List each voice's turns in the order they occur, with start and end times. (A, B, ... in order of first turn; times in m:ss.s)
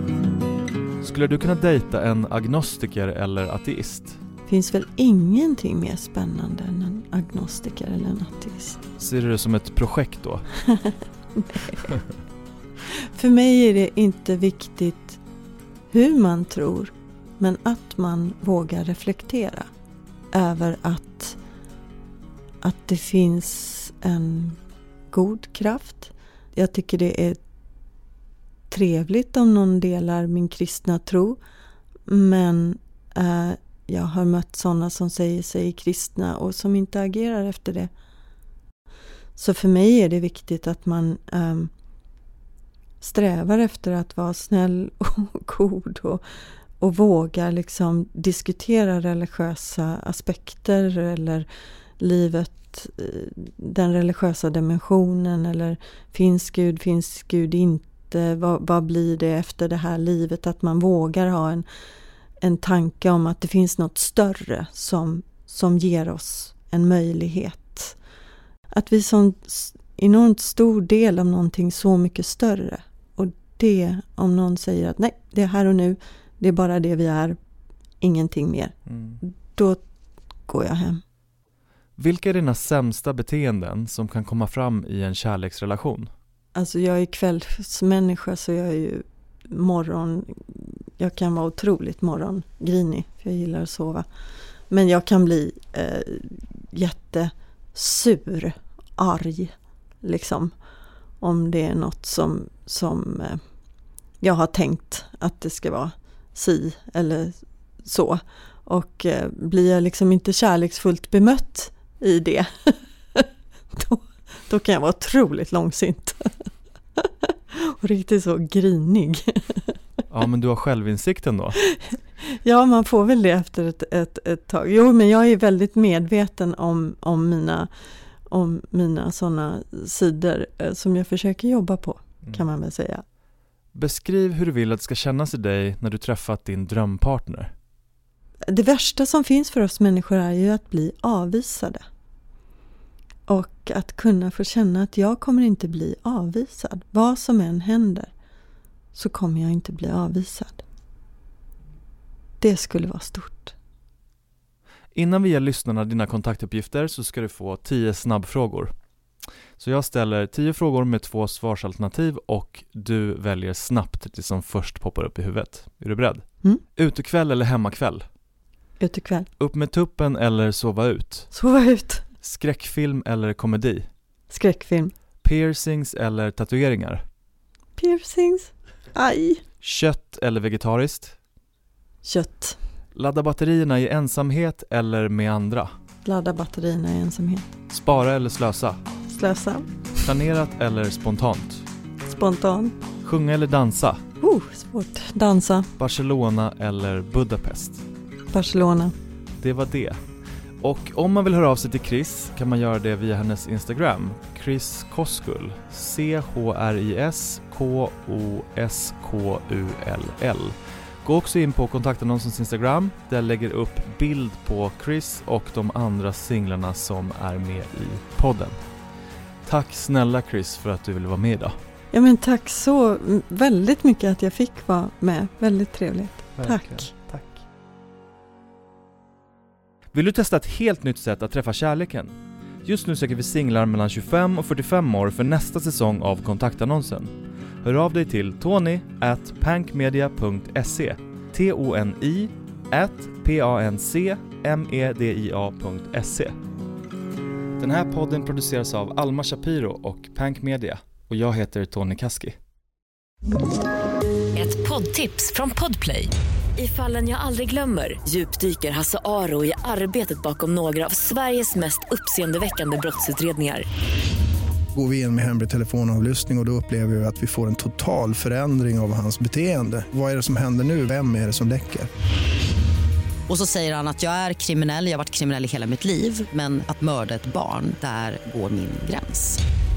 0:01.0-0:04.2 A
0:04.5-0:08.8 B
0:09.0-0:10.5 A
0:10.6-0:11.9 B
0:12.9-0:15.2 B
0:15.9-0:19.7 B
0:20.3-0:21.4 B
0:22.6-0:24.6 B
0:25.1-0:27.4 B
0:28.7-0:31.4 B
0:32.1-0:37.9 B
0:39.4-0:41.7 B
0:43.0-0:46.2 B
0:46.8-0:51.5 B
0:52.0-1:01.6 B
1:02.4-1:08.0 B
1:08.7-1:17.4 B
1:18.0-1:19.8 B
1:20.5-1:21.0 B
1:22.0-1:26.1 A
1:26.5-1:34.0 B
1:34.7-1:40.5 B
1:41.2-1:43.4 B
1:44.2-1:56.3 B
1:57.0-1:59.8 B
2:00.1-2:01.6 A
2:01.9-2:07.7 B
2:08.3-2:13.0 B
2:13.7-2:17.5 A
2:18.5-2:21.8 B
2:23.3-2:28.1 B
2:28.9-2:30.6 B
2:32.4-2:33.5 B
2:34.9-2:38.7 A
2:39.6-2:48.0 A
2:48.8-2:49.3 B
2:49.4-2:51.3 A
2:51.3-2:52.0 B
2:52.2-2:53.8 A
2:54.3-2:54.9 B
2:55.2-2:57.0 A
2:57.8-2:59.4 B
2:59.6-3:01.1 A
3:02.0-3:02.6 B
3:02.9-3:05.7 A
3:06.0-3:07.5 B
3:07.7-3:08.8 A
3:09.1-3:09.7 B
3:10.0-3:11.6 A
3:12.0-3:12.8 B
3:13.0-3:14.0 A
3:14.2-3:15.7 B
3:15.8-3:17.8 A
3:18.3-3:18.9 B
3:19.4-3:20.0 A
3:20.6-3:38.6 A
3:39.4-3:41.6 A
3:41.9-3:46.9 B
3:46.4-3:47.3 A
3:49.9-3:57.1 A
3:57.6-4:06.3 A
4:07.6-4:12.4 A
4:14.3-4:23.6 C
4:24.7-4:31.9 D
4:33.3-4:39.4 E